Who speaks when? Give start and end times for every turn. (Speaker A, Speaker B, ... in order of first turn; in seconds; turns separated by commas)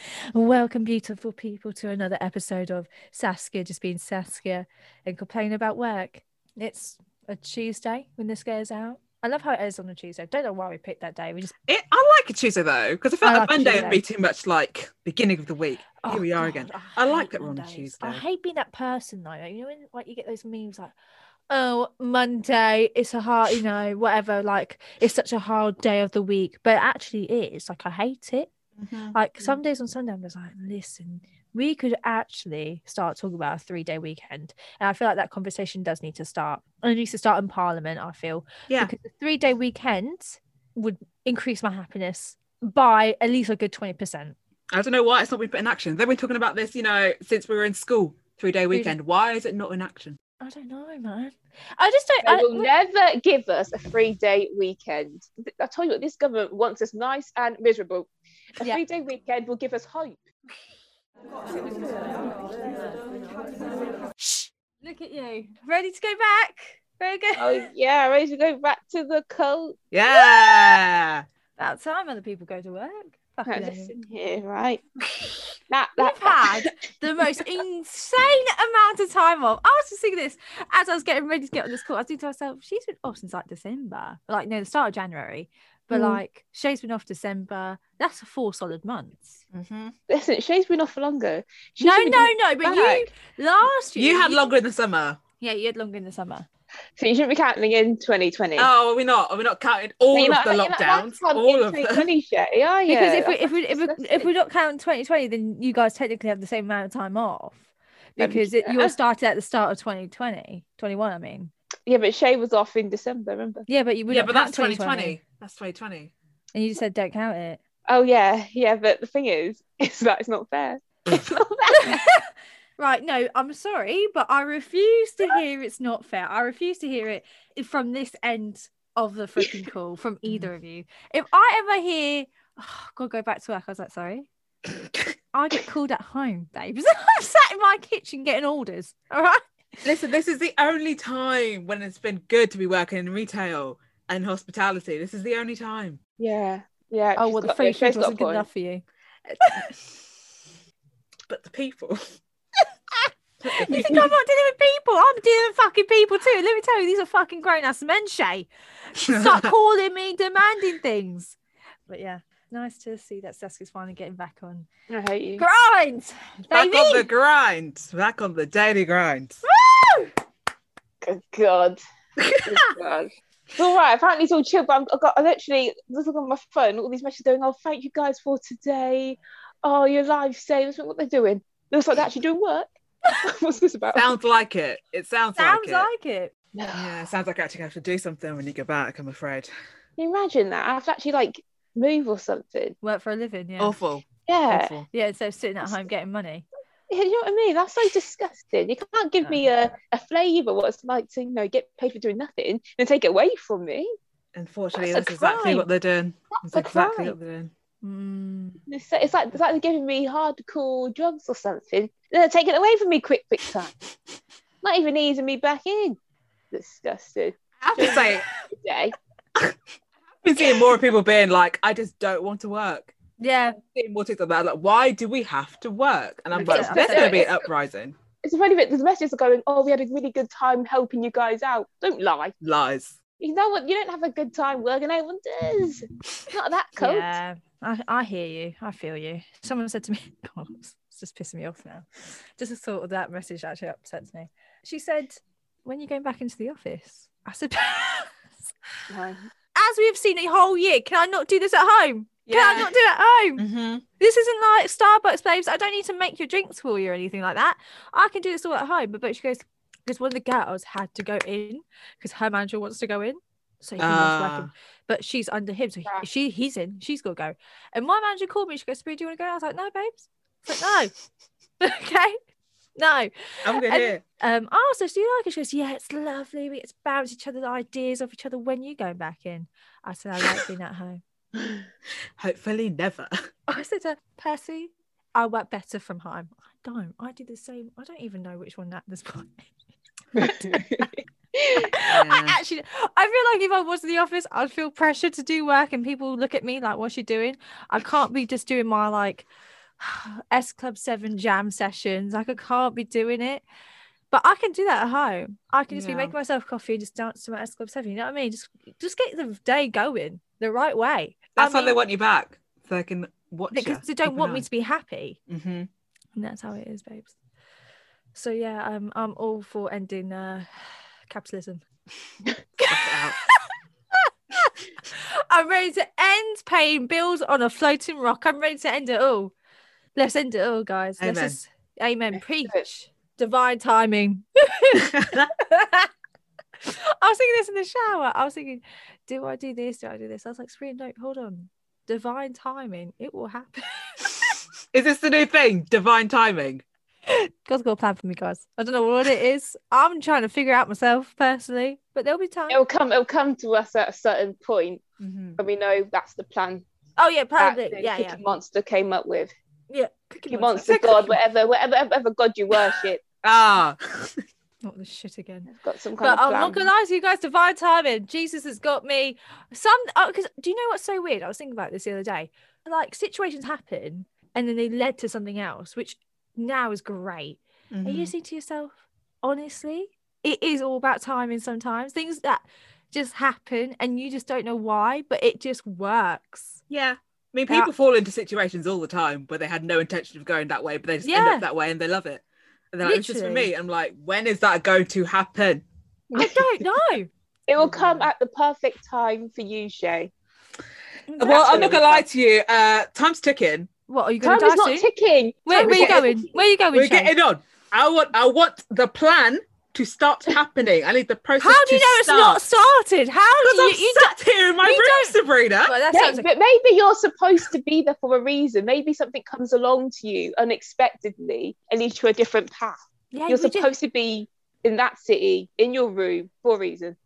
Speaker A: 0.3-11.6, Speaker B: 11.7-18.2, Speaker A: 13.2-14.0, Speaker A: 16.0-20.9, Speaker A: 21.5-28.5, Speaker B: 28.8-29.1, Speaker A: 29.1-44.4, Speaker B: 44.7-50.2, Speaker A: 48.7-49.0, Speaker A: 50.4-52.7, Speaker C: 52.2-60.2, Speaker A: 64.8-67.7, Speaker C: 67.4-69.8, Speaker B: 69.9-71.3, Speaker A: 70.1-70.8, Speaker A: 71.6-73.9, Speaker C: 73.5-74.8, Speaker C: 75.7-76.5, Speaker A: 76.0-89.4, Speaker C: 85.9-86.2, Speaker B: 89.5-89.9, Speaker C: 90.1-93.1, Speaker A: 91.8-94.5, Speaker B: 94.0-95.2, Speaker A: 95.4-96.5, Speaker C: 97.0-98.7, Speaker B: 98.6-102.1, Speaker C: 100.1-104.3, Speaker A: 102.9-111.5, Speaker C: 108.2-109.0, Speaker C: 111.9-113.7, Speaker A: 113.7-115.2, Speaker B: 114.1-116.1, Speaker A: 116.5-117.6, Speaker C: 117.9-122.0, Speaker A: 121.7-122.2, Speaker A: 122.8-134.3, Speaker B: 130.2-130.5, Speaker A: 135.3-139.9, Speaker B: 139.8-146.0, Speaker C: 146.2-148.4, Speaker A: 147.2-148.8, Speaker B: 149.3-149.7, Speaker A: 149.4-149.7, Speaker B: 151.3-152.2, Speaker A: 153.0-161.4, Speaker B: 153.4-154.2, Speaker B: 159.1-159.5, Speaker A: 161.9-164.7, Speaker C: 164.9-165.4, Speaker A: 165.4-167.1, Speaker B: 166.5-169.4, Speaker A: 169.5-170.1, Speaker C: 171.0-171.8, Speaker B: 172.2-172.6, Speaker C: 172.4-184.1, Speaker B: 183.9-185.9, Speaker A: 185.4-186.3, Speaker C: 186.6-187.1, Speaker B: 186.7-189.5, Speaker C: 190.0-192.8, Speaker A: 192.8-193.8, Speaker B: 193.6-194.9, Speaker C: 194.3-194.8, Speaker A: 194.9-196.5, Speaker C: 196.9-203.9, Speaker B: 204.3-207.5, Speaker C: 204.8-205.6, Speaker C: 206.4-207.2, Speaker A: 207.8-208.6, Speaker C: 208.7-213.7, Speaker C: 214.6-216.0, Speaker C: 216.5-219.0, Speaker B: 217.6-218.3, Speaker B: 220.2-222.9, Speaker A: 223.2-223.6, Speaker B: 223.6-227.9, Speaker A: 226.4-227.3, Speaker C: 226.4-227.4, Speaker C: 228.2-232.3, Speaker B: 232.4-233.0, Speaker C: 233.2-237.2, Speaker A: 236.8-248.2, Speaker C: 248.9-249.3, Speaker A: 249.6-253.4, Speaker B: 252.3-252.7, Speaker B: 253.4-253.8, Speaker A: 254.0-270.9, Speaker B: 263.8-264.5, Speaker A: 271.6-272.2, Speaker A: 272.8-281.0, Speaker B: 273.4-274.0, Speaker B: 282.2-283.2, Speaker A: 283.5-289.5, Speaker C: 290.1-291.7, Speaker A: 290.2-290.9, Speaker A: 291.7-299.3, Speaker B: 291.9-292.4, Speaker A: 299.8-303.4, Speaker A: 304.1-311.8, Speaker B: 305.7-306.2, Speaker B: 311.4-314.4, Speaker A: 313.5-315.2, Speaker B: 315.3-315.7, Speaker A: 316.1-317.1, Speaker A: 318.1-321.6, Speaker A: 322.6-329.3, Speaker B: 322.7-323.2, Speaker A: 329.9-335.9, Speaker B: 331.0-331.4, Speaker B: 334.9-335.3, Speaker A: 336.6-344.4, Speaker B: 344.7-346.6, Speaker A: 347.1-352.6, Speaker C: 352.5-354.8, Speaker B: 355.0-355.4, Speaker C: 355.4-356.6, Speaker A: 357.0-358.2, Speaker C: 357.4-359.3, Speaker A: 359.7-361.2, Speaker C: 360.3-363.0, Speaker B: 363.2-364.2, Speaker A: 364.6-365.5, Speaker C: 365.5-366.7, Speaker A: 366.0-386.6, Speaker B: 377.7-378.1, Speaker B: 386.7-395.6, Speaker A: 391.0-391.4, Speaker A: 392.8-393.5, Speaker A: 396.2-397.1, Speaker B: 396.2-396.6, Speaker C: 397.5-400.1, Speaker B: 397.6-398.1, Speaker A: 401.1-401.8, Speaker B: 401.2-403.7, Speaker C: 401.3-402.1, Speaker A: 403.9-404.9, Speaker C: 404.2-406.3, Speaker A: 405.5-407.1, Speaker B: 405.6-406.0, Speaker B: 406.7-412.4, Speaker A: 411.4-416.3, Speaker B: 413.4-415.8, Speaker C: 415.9-427.0, Speaker A: 423.1-423.7